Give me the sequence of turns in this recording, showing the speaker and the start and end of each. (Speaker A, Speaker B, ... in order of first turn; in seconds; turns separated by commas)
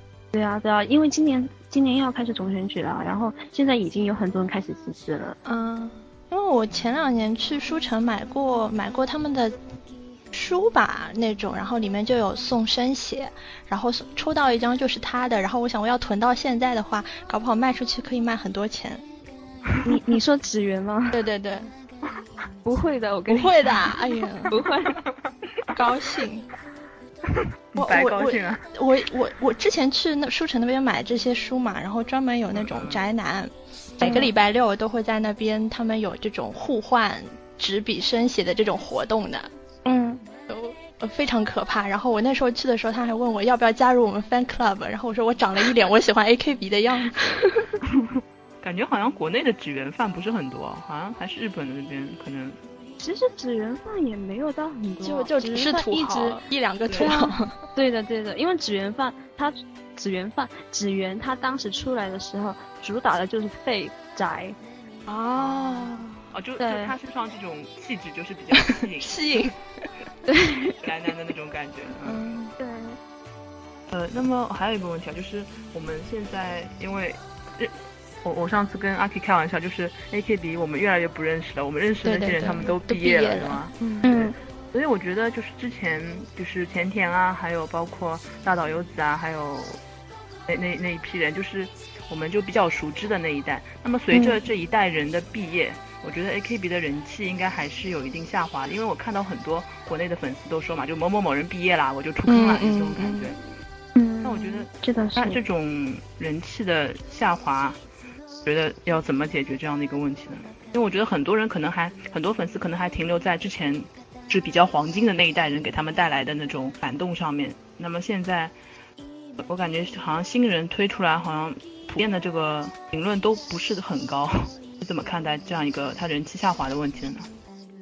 Speaker A: 0.3-5.4, Speaker B: 5.5-9.6, Speaker B: 10.3-19.0, Speaker C: 19.7-20.0, Speaker A: 19.8-21.2, Speaker B: 21.1-21.7, Speaker A: 22.6-23.9, Speaker B: 23.3-24.5, Speaker A: 24.5-25.0, Speaker B: 25.7-26.5, Speaker C: 27.7-28.6, Speaker B: 27.8-39.5, Speaker C: 32.5-33.0, Speaker A: 34.0-34.3, Speaker A: 39.9-40.2, Speaker B: 40.5-47.2, Speaker C: 47.9-52.6, Speaker A: 53.0-56.4, Speaker B: 55.0-57.6, Speaker A: 57.0-64.6, Speaker B: 65.1-66.2, Speaker C: 65.4-69.5, Speaker A: 66.6-66.9, Speaker B: 68.7-69.6, Speaker A: 70.3-70.8, Speaker C: 70.8-72.3, Speaker B: 72.0-72.5, Speaker A: 72.6-73.0, Speaker C: 73.9-89.8, Speaker B: 82.0-84.1, Speaker A: 84.0-84.3, Speaker C: 90.5-103.4, Speaker A: 94.1-94.4, Speaker B: 102.3-103.3, Speaker A: 104.0-105.4, Speaker C: 104.2-107.8, Speaker C: 108.5-118.5, Speaker C: 119.4-127.3